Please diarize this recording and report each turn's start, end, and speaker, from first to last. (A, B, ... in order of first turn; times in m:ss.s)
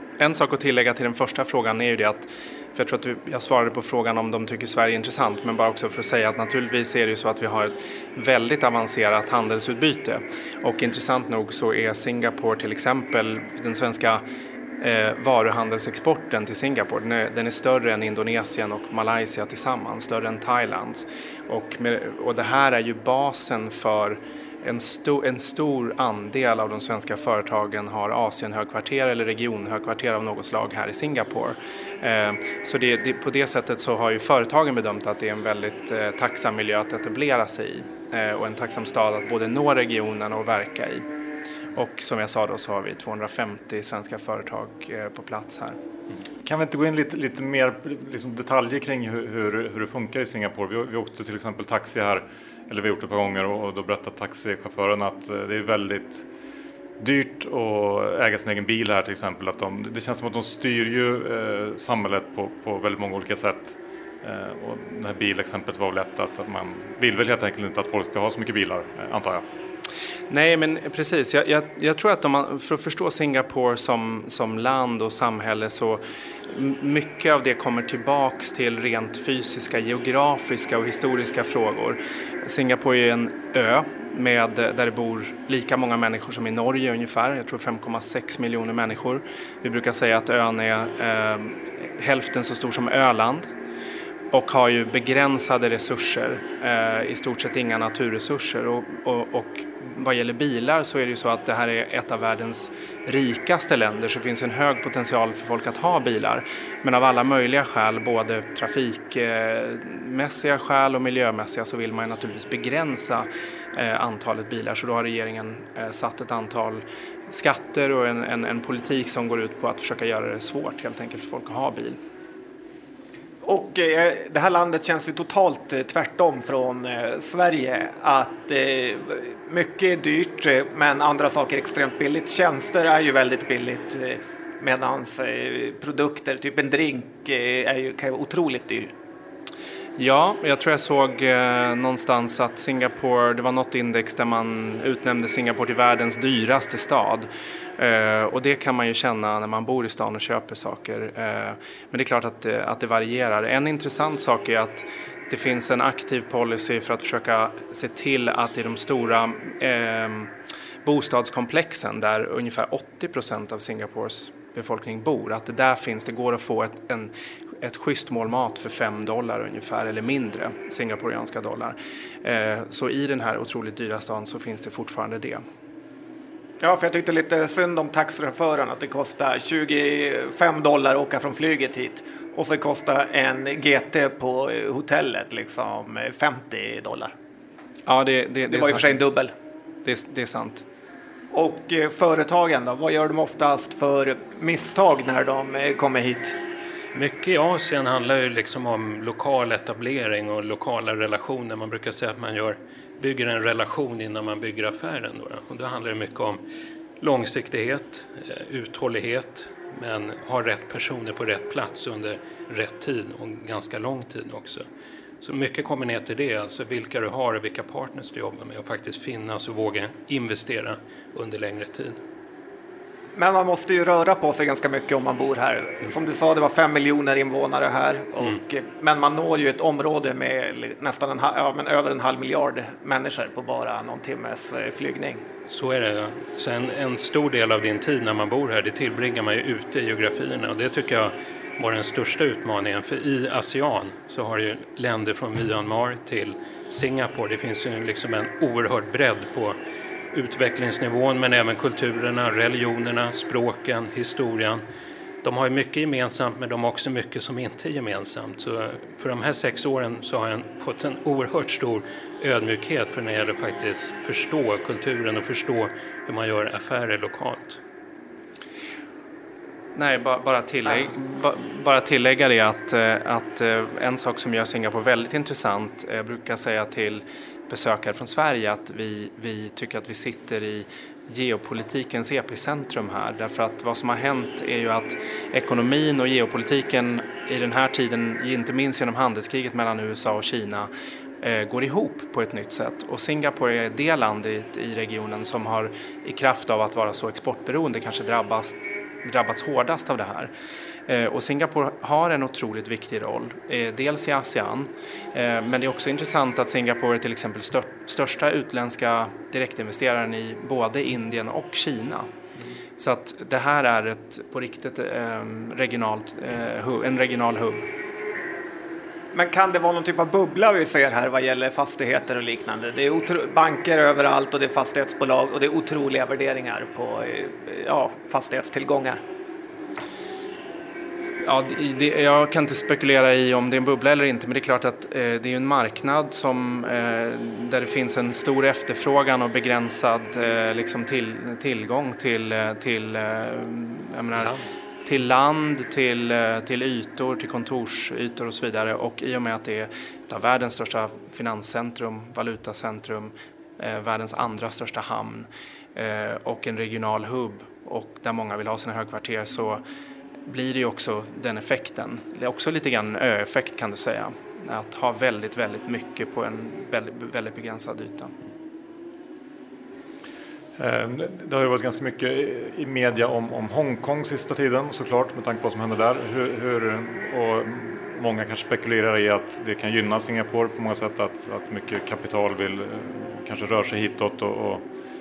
0:00.2-0:14.2 A
0:14.8-0:41.0 A
0:41.8-0:45.8 A
0:46.4-0:56.3 B
0:57.0-1:09.4 B
1:10.3-1:33.5 A
1:34.3-2:02.0 A
2:03.4-2:18.9 C
2:20.0-2:40.3 A
2:40.8-2:55.4 A
2:56.6-3:07.1 C
3:07.9-3:09.0 A
3:08.5-3:09.3 C
3:09.8-3:10.6 A
3:11.3-3:16.4 C
3:16.9-3:26.4 D
3:27.0-3:34.7 D
3:35.2-3:42.0 D
3:43.2-3:55.2 C
3:55.5-4:09.6 D
4:10.1-4:14.6 D
4:15.2-4:27.6 D
4:29.8-5:00.3 A
5:00.9-5:12.1 A
5:12.8-5:17.7 A
5:19.1-5:29.0 C
5:31.2-5:59.6 A
6:00.3-6:08.1 A
6:10.6-6:24.7 B